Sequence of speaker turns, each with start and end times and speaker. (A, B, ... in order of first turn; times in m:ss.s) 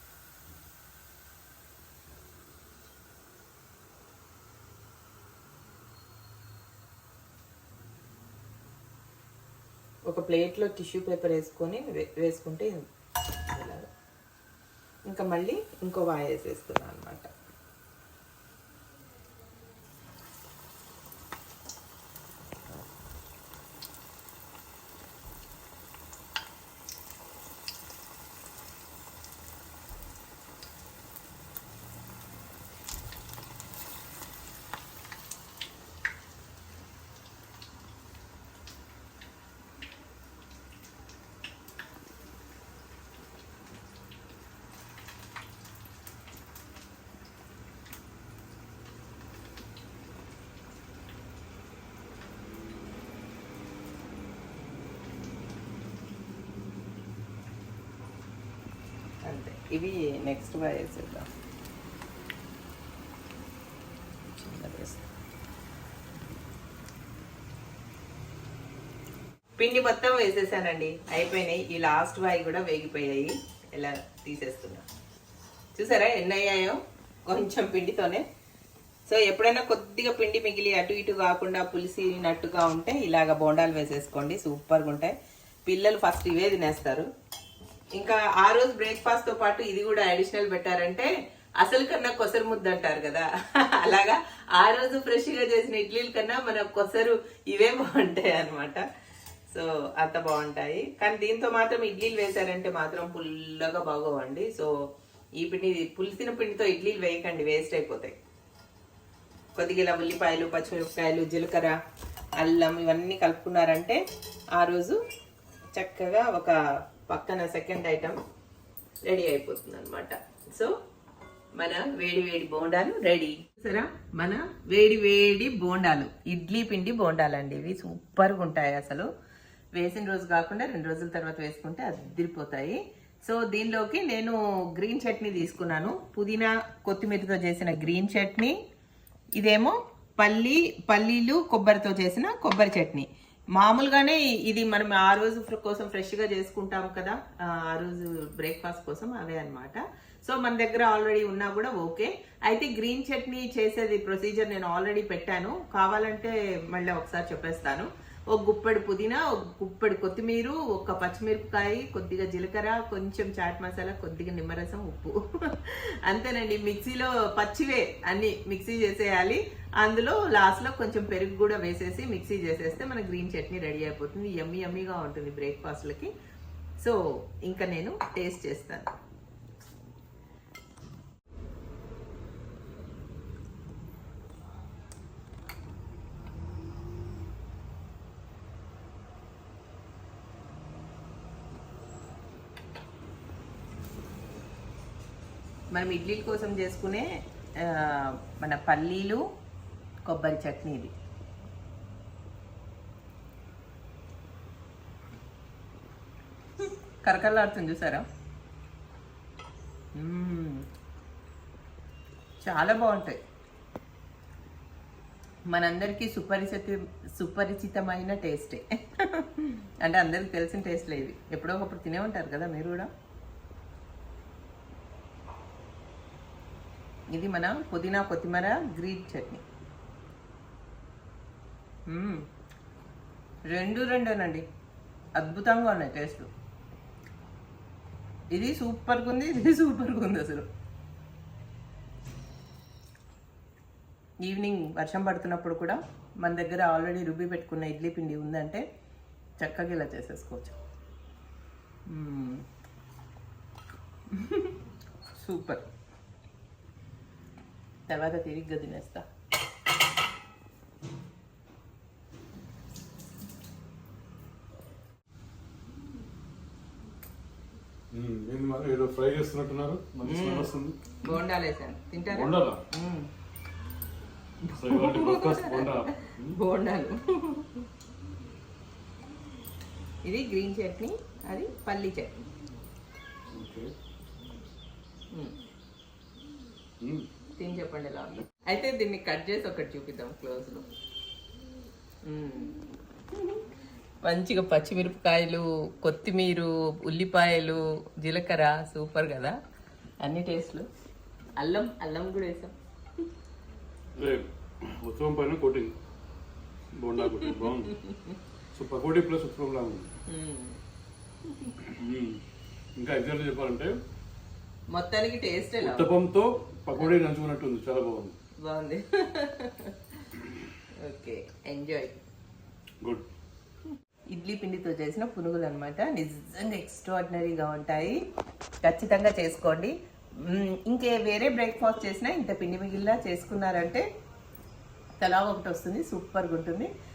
0:10.1-0:13.9 A
0:15.1-0:17.3 A
0:59.2-1:01.3 A
1:04.3-1:05.0 A
1:09.6-1:14.8 A
1:15.8-1:18.2 A
1:19.1-1:25.2 A
1:25.7-1:27.1 A
1:28.0-1:38.8 A
1:39.5-1:44.7 A
1:45.4-1:48.2 A
1:49.6-1:51.8 A
1:52.4-1:54.0 A
1:54.6-1:55.0 A
1:55.8-1:58.2 A
1:59.0-2:00.8 A
2:01.6-2:09.1 A
2:09.8-2:18.6 A
2:19.4-2:56.1 A
2:56.8-2:58.9 A
3:15.7-3:19.2 A
3:20.1-3:20.9 A
3:26.6-3:28.1 A
3:30.0-3:30.7 A
3:32.4-3:33.2 A
3:35.5-3:42.9 A
3:47.1-3:49.4 A
3:51.9-3:52.3 A
3:53.5-3:54.5 A
3:55.2-3:56.3 A
3:58.3-4:00.5 A
4:04.2-4:08.6 A
4:09.4-4:10.6 A
4:11.9-4:12.4 A
4:14.1-4:14.6 A
4:15.2-4:15.6 A
4:17.9-4:19.0 A
4:27.9-4:30.8 B
4:30.1-4:30.5 A
4:31.0-4:33.1 A
4:32.1-4:32.6 B
4:34.4-4:37.7 A
4:34.5-4:36.4 B
4:40.0-4:42.3 A
4:43.3-4:43.7 B
4:46.8-4:47.1 B
4:47.4-4:50.7 A
4:52.0-4:52.6 A
4:53.1-4:53.4 A
4:54.0-4:59.4 A
5:00.0-5:00.7 A
5:01.4-5:03.1 A
5:04.0-5:05.8 B
5:06.8-5:07.8 B
5:07.1-5:08.2 A
5:08.5-5:09.9 B
5:10.1-5:10.6 A
5:11.3-5:11.6 A
5:11.6-5:12.2 B
5:12.8-5:13.8 B
5:14.7-5:15.9 A
5:15.6-5:18.2 B
5:18.4-5:20.0 A
5:20.8-5:22.0 A
5:24.1-5:28.0 A
5:28.6-5:33.8 A
5:35.0-5:36.7 A